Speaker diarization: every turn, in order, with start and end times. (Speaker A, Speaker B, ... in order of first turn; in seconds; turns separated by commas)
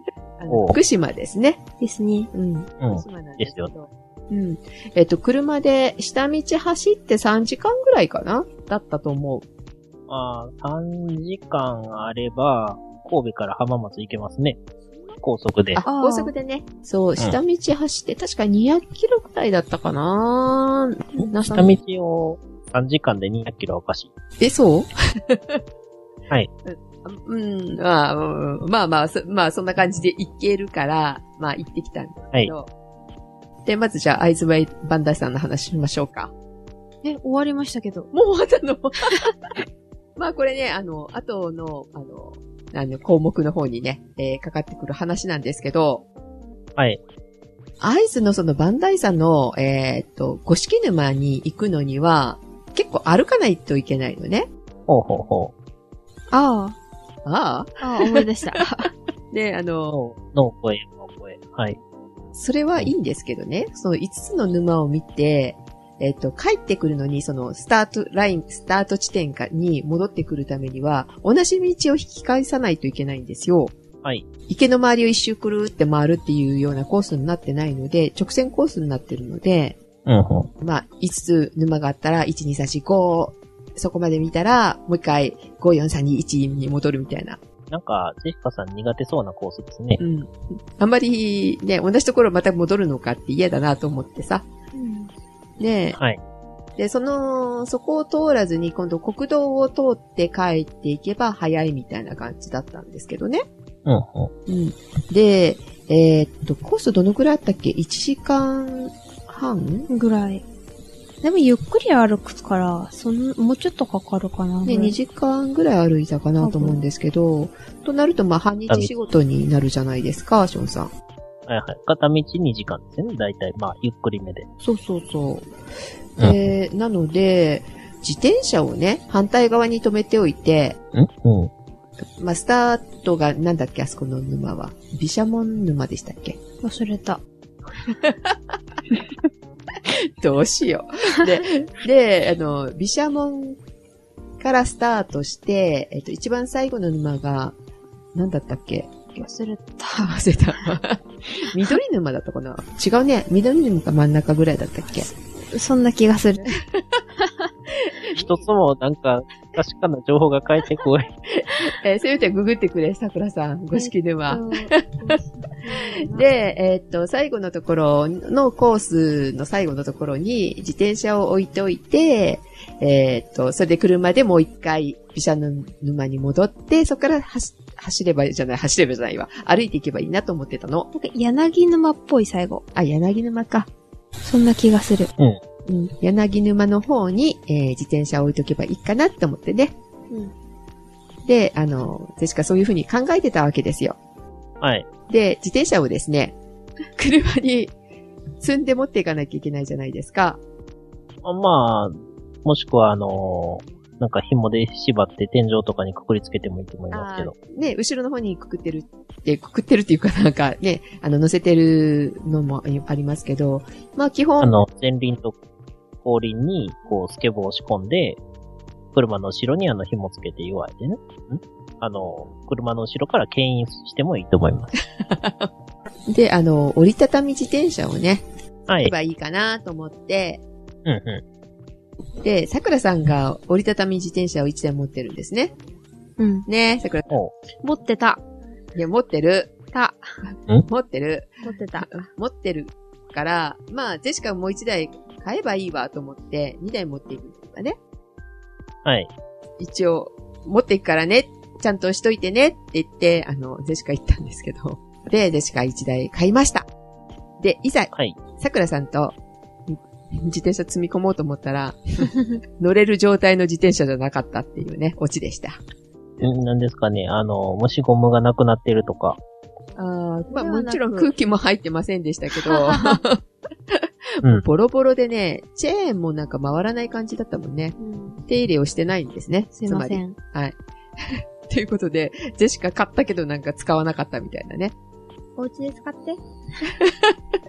Speaker A: 0.4-1.6, Speaker B: 0.5-0.8, Speaker C: 1.8-2.3, Speaker A: 2.3-9.4, Speaker B: 2.8-3.7, Speaker B: 10.1-14.6, Speaker B: 15.2-15.8, Speaker A: 15.7-21.8, Speaker C: 15.8-16.3, Speaker B: 21.5-24.1, Speaker A: 24.4-25.6, Speaker A: 26.6-32.7, Speaker A: 33.6-36.3, Speaker C: 37.0-38.1, Speaker A: 38.1-39.3, Speaker A: 40.2-46.0, Speaker A: 47.8-54.5, Speaker B: 54.9-55.5, Speaker C: 56.3-56.8, Speaker A: 57.2-58.6, Speaker C: 57.8-58.9, Speaker A: 59.3-60.0, Speaker B: 59.9-61.8, Speaker A: 62.3-73.7, Speaker A: 74.5-79.8, Speaker B: 80.0-80.5, Speaker A: 80.6-87.4, Speaker B: 87.7-90.0, Speaker A: 90.0-94.5, Speaker C: 94.7-95.1, Speaker A: 95.6-96.0, Speaker B: 96.0-96.2, Speaker A: 96.8-103.4, Speaker B: 103.8-104.3, Speaker A: 104.5-109.9, Speaker C: 109.9-110.4, Speaker C: 111.2-114.9, Speaker A: 114.6-120.9, Speaker C: 116.4-116.8, Speaker B: 121.5-124.5, Speaker A: 124.6-125.5, Speaker A: 126.2-130.8, Speaker B: 130.9-131.5, Speaker A: 132.2-136.4, Speaker C: 136.6-137.2, Speaker A: 137.9-138.6, Speaker A: 139.9-143.6, Speaker A: 144.4-147.6, Speaker A: 148.1-149.2, Speaker C: 149.2-150.1, Speaker A: 150.0-155.1, Speaker C: 154.9-156.6, Speaker A: 156.4-156.8, Speaker A: 157.7-158.4, Speaker B: 158.2-161.1, Speaker A: 161.3-165.0, Speaker C: 163.7-166.5, Speaker A: 165.7-180.9, Speaker C: 180.9-182.6, Speaker A: 182.7-183.7, Speaker C: 184.2-185.1, Speaker A: 185.7-189.7, Speaker A: 191.2-194.0, Speaker B: 194.6-194.9, Speaker A: 195.1-196.3, Speaker A: 197.0-197.7, Speaker A: 198.4-200.4, Speaker B: 201.2-207.3, Speaker A: 206.9-214.6, Speaker B: 214.4-215.3, Speaker B: 216.0-218.2, Speaker B: 218.9-224.7, Speaker A: 225.0-225.5, Speaker A: 226.1-230.4, Speaker B: 228.7-228.9, Speaker B: 230.8-231.2, Speaker A: 232.2-235.5, Speaker C: 236.2-236.5, Speaker A: 236.5-237.1, Speaker C: 237.6-238.2, Speaker A: 238.8-239.5, Speaker C: 239.7-240.0, Speaker A: 240.2-247.8, Speaker C: 241.4-241.9, Speaker B: 248.8-249.1, Speaker A: 249.6-256.7, Speaker A: 257.4-265.6, Speaker B: 266.2-269.2, Speaker A: 269.8-284.7, Speaker C: 270.3-271.1, Speaker C: 272.4-273.0, Speaker C: 277.8-278.2, Speaker C: 279.5-280.1, Speaker C: 285.4-286.2, Speaker A: 286.7-287.1